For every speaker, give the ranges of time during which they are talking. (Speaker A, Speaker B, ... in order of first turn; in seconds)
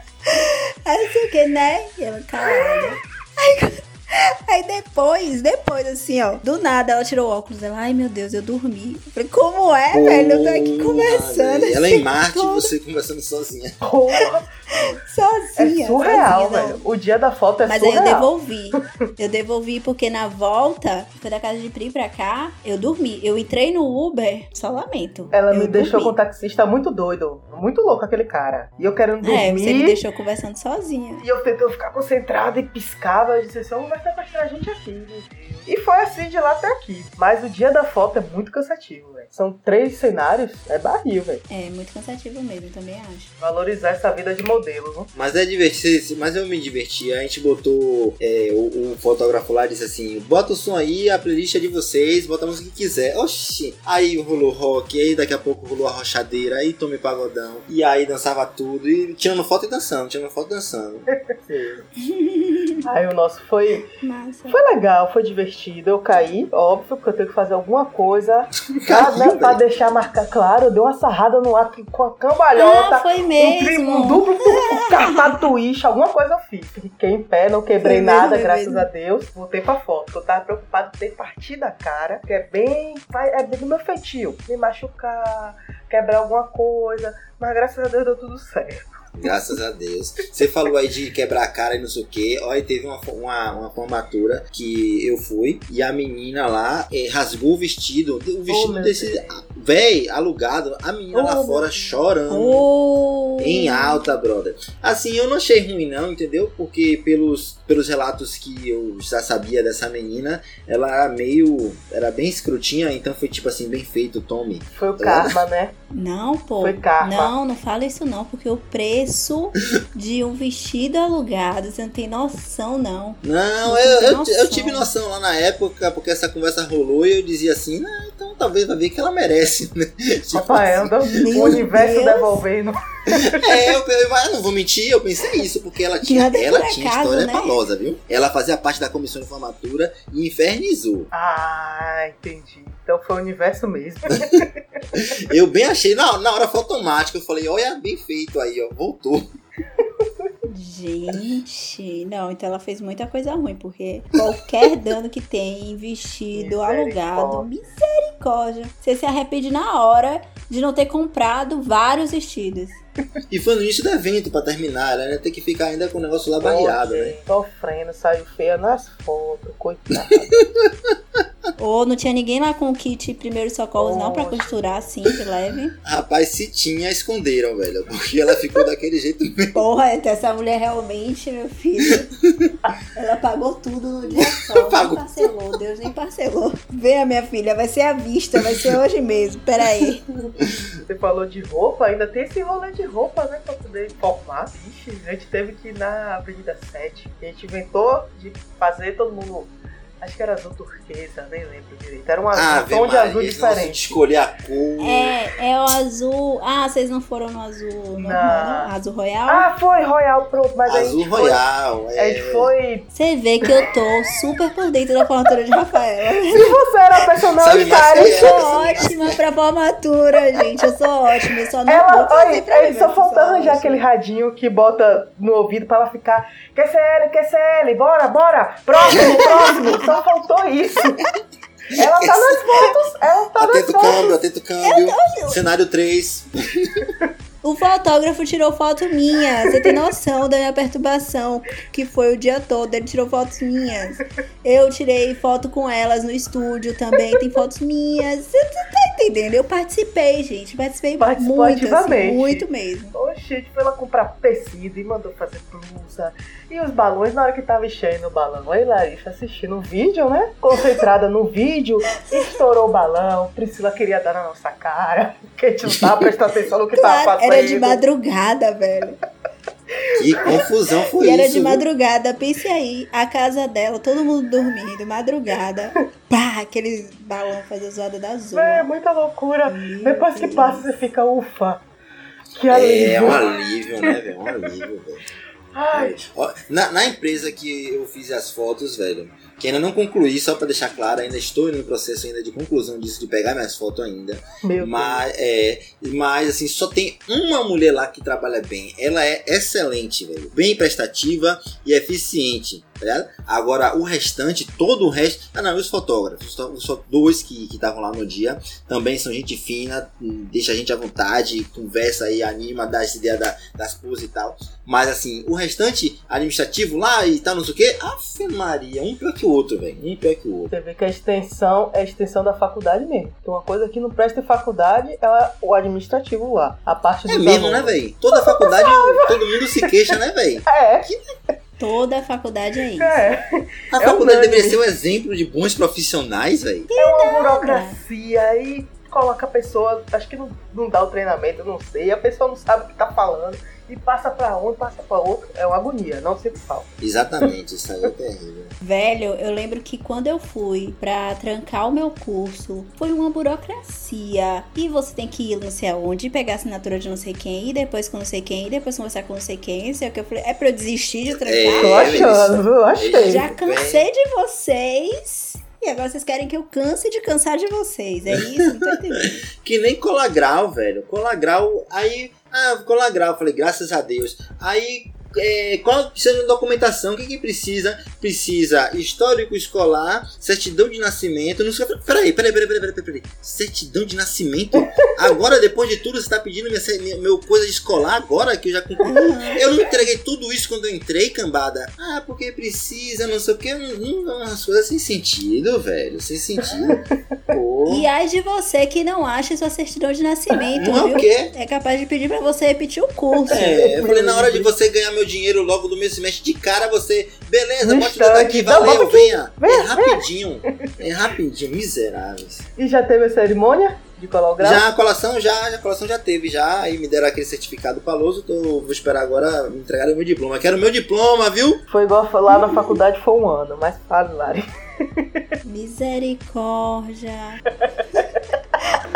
Speaker A: 0.2-12.7, 14.2-16.8, 17.6-26.1, 29.2-31.2, 41.5-43.3, 62.0-62.8, 64.0-64.6, 72.5-75.4, 77.8-78.9, 102.3-104.1, 115.9-124.9, 131.1-132.4, 136.0-137.6, 150.5-162.8, 171.6-175.7, 179.5-182.1, 182.9-190.0, 204.8-209.5, 212.9-216.5, 218.0-223.8, 229.0-229.8, 234.6-235.4, 237.4-252.9, 262.0-262.4, 266.7-269.0, 271.0-278.7, 279.5-280.9, 331.6-333.1, 336.7-337.8, 348.6-362.1, 363.0-369.2, 388.8-389.4, 397.6-403.6, 422.3-422.8, 425.4-427.4
Speaker B: 9.9-13.8, 45.1-61.1, 68.9-69.7, 89.2-102.7, 103.4-115.3, 123.2-131.6, 133.3-141.1, 144.9-149.2, 163.3-167.2, 170.4-170.9, 175.8-179.6, 184.5-185.3, 202.3-205.2, 210.6-212.5, 217.4-219.2, 228.9-229.2, 231.7-232.6, 233.4-236.9, 270.0-271.6, 282.5-285.1, 285.7-320.5, 327.1-331.0, 333.7-336.7, 346.8-348.5, 361.2-363.9, 369.4-397.9, 400.6-401.3, 403.3-412.4, 414.4-421.6
Speaker C: 13.8-14.5, 15.6-18.8, 25.3-30.0, 31.2-41.4, 43.4-45.1, 61.3-61.8, 62.9-63.9, 64.5-88.9, 98.5-99.5, 101.1-102.0, 114.7-115.8, 116.6-117.3, 130.3-133.4, 141.1-144.8, 149.8-150.3, 156.3-157.5, 166.4-170.3, 173.8-174.8, 190.9-204.0, 208.0-208.7, 209.3-211.4, 212.0-212.9, 216.3-218.9, 221.7-231.0, 231.8-234.1, 251.0-267.8, 269.8-270.2, 278.3-281.6, 282.4-283.2, 285.5-285.9, 294.4-295.0, 320.5-329.1, 330.5-330.9, 332.8-334.6, 336.8-346.7, 361.6-363.2, 403.2-404.5, 407.6-410.0, 412.6-414.6, 421.7-425.2